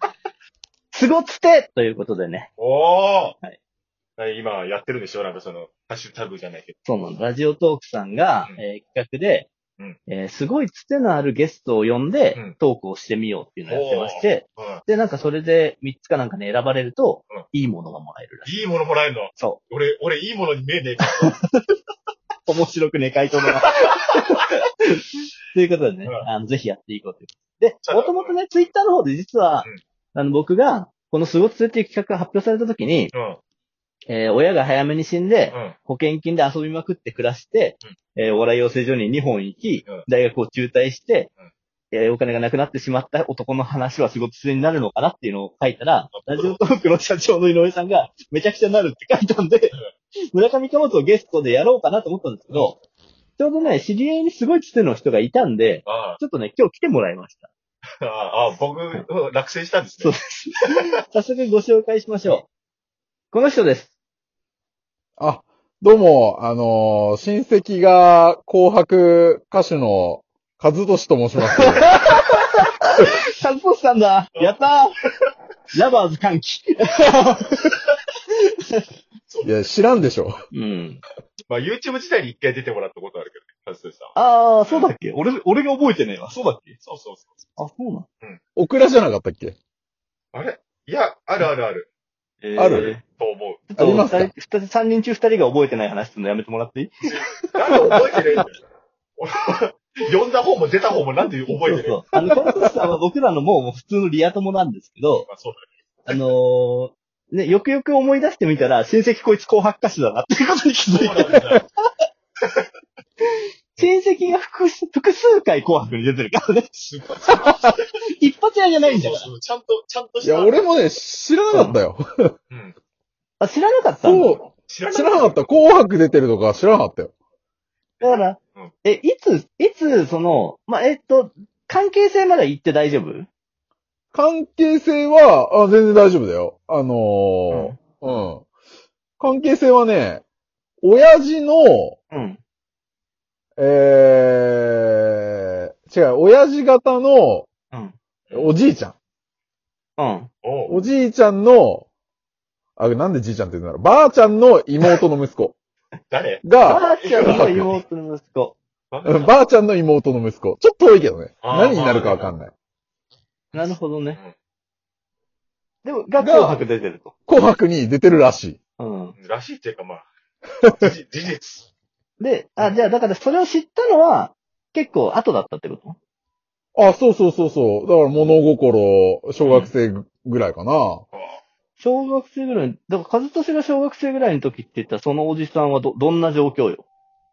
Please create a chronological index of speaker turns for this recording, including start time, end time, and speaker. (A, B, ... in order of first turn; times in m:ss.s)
0:00.9-0:02.5 A
0:02.6-0:03.4 B
0:04.2-0:07.1 B
0:06.9-0:09.5 A
0:10.1-0:18.5 A
0:13.7-0:14.8 B
0:18.4-0:21.3 B
0:22.5-0:33.1 A
0:27.8-0:28.4 B
0:33.1-0:33.4 B
0:34.1-0:41.3 A
0:41.9-0:49.8 A
0:46.1-0:46.6 B
0:50.3-0:52.8 A
0:53.4-0:57.5 A
0:55.8-0:56.2 B
0:58.0-1:00.1 B
1:00.0-1:02.5 A
1:03.3-1:03.9 A
1:05.2-1:11.9 C
1:11.5-1:14.9 A
1:15.7-1:17.8 A
1:18.3-1:18.8 A
1:19.3-1:19.6 B
1:19.4-1:20.3 C
1:20.5-1:21.0 A
1:21.5-1:24.9 B
1:24.2-1:26.8 A
1:26.8-1:27.3 B
1:27.6-1:28.0 A
1:28.6-1:29.6 C
1:30.3-1:31.9 B
1:32.4-1:33.0 A
1:32.6-1:33.0 C
1:33.0-1:33.7 B
1:33.7-1:37.9 A
1:33.8-1:34.3 C
1:37.0-1:38.6 B
1:39.2-1:42.0 B
1:41.5-1:45.3 A
1:42.3-1:42.7 C
1:45.2-1:46.2 B
1:46.1-1:51.6 A
1:50.9-1:51.6 B
1:53.8-1:56.7 A
1:56.7-1:57.8 B
1:58.2-1:59.3 A
1:58.8-2:00.8 B
2:00.2-2:02.3 C
2:01.5-2:01.8 A
2:03.4-2:04.4 A
2:04.0-2:07.1 C
2:04.2-2:05.6 B
2:08.0-2:13.3 A
2:08.0-2:08.7 B
2:14.1-2:18.4 C
2:17.5-2:17.8 A
2:19.2-2:20.2 C
2:20.8-2:22.0 C
2:22.1-2:22.4 A
2:23.6-2:27.5 C
2:27.7-2:28.0 A
2:28.3-2:28.5 B
2:28.3-2:28.9 C
2:30.0-2:30.3 A
2:30.4-2:30.8 B
2:30.7-2:31.9 C
2:32.8-2:35.5 C
2:36.1-2:37.5 B
2:36.4-2:37.7 C
2:36.6-2:38.6 A
2:38.9-2:39.3 B
2:39.0-2:42.5 C
2:41.4-2:42.3 B
2:43.5-2:44.2 A
2:43.5-2:44.3 B
2:45.8-2:47.1 A
2:46.2-2:46.6 C
2:47.3-2:48.6 C
2:48.8-2:49.1 A
2:49.2-2:50.1 B
2:50.6-2:51.7 B
2:52.2-2:56.0 A
2:52.6-2:52.8 B
2:56.8-3:01.0 C
3:01.1-3:01.4 B
3:01.8-3:06.8 A